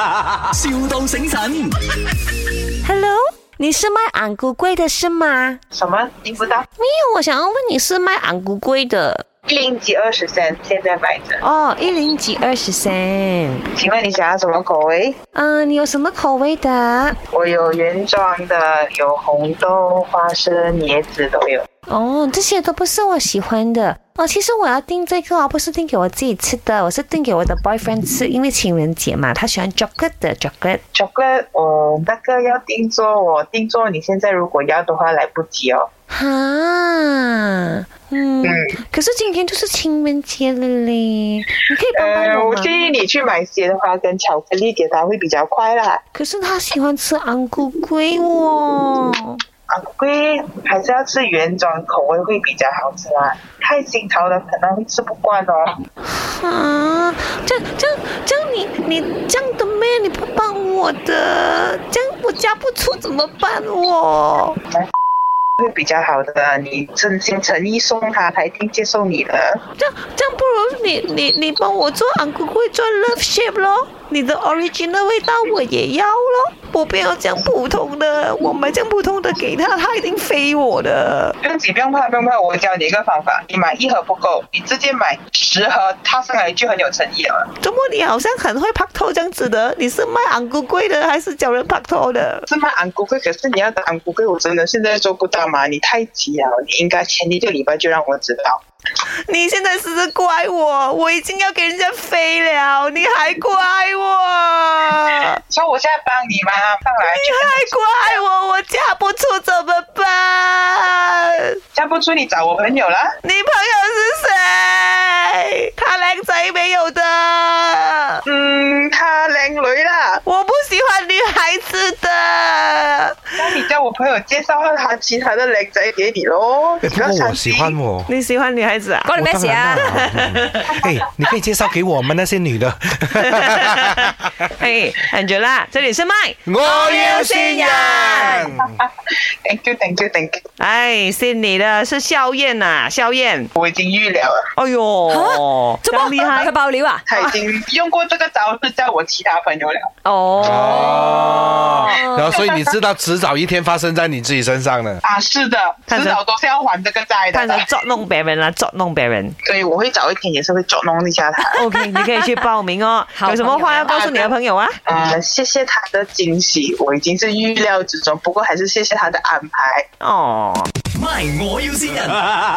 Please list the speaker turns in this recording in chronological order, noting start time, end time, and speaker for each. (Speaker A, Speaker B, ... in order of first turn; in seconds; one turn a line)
Speaker A: 0.4-1.7
Speaker B: 2.8-5.6
Speaker C: 5.7-6.7
Speaker B: 6.8-9.2
Speaker C: 9.5-11.4
Speaker B: 11.4-13.7
Speaker C: 13.8-15.2
Speaker B: 15.3-17.2
Speaker C: 17.3-21.7
Speaker B: 21.9-30.8
Speaker C: 30.9-35.9
Speaker B: 36.1-42.9
Speaker C: 38.4-38.7
Speaker C: 41.9-46.0
Speaker B: 46.1-49.4
Speaker C: 49.7-55.8
Speaker B: 56.0-64.6
Speaker C: 65.6-69.6
Speaker B: 69.8-81.4
Speaker C: 81.4-87.5
Speaker B: 87.6-92.5
Speaker C: 92.5-98.6
Speaker B: 99.3-105.4
Speaker C: 105.5-108.2
Speaker B: 107.0-111.6
Speaker C: 111.7-113.1
Speaker B: 113.2-118.2
Speaker C: 118.2-120.2
Speaker B: 120.2-123.6
Speaker C: 123.4-127.8
Speaker D: 126.8-128.1
Speaker B: 128.1-129.1
Speaker E: 129.1-130.1
Speaker D: 129.2-134.0
Speaker B: 129.8-130.8
Speaker B: 133.2-138.4
Speaker D: 136.5-138.8
Speaker C: 138.5-138.8
Speaker C: 139.4-140.4
Speaker B: 140.6-143.5
Speaker C: 143.6-144.4
Speaker B: 144.6-146.5
Speaker E: 145.1-147.4
Speaker C: 147.1-149.9
Speaker E: 150.1-151.2
Speaker B: 150.1-152.4
Speaker D: 150.4-155.0
Speaker C: 152.3-152.7
Speaker C: 155.0-157.7
Speaker B: 155.9-156.2
Speaker B: 157.3-159.4
Speaker C: 159.4-161.6
Speaker B: 161.5-164.8
Speaker E: 161.6-161.9
Speaker E: 163.2-164.2
Speaker C: 164.9-169.9
Speaker B: 170.0-170.7
Speaker A: 170.9-172.2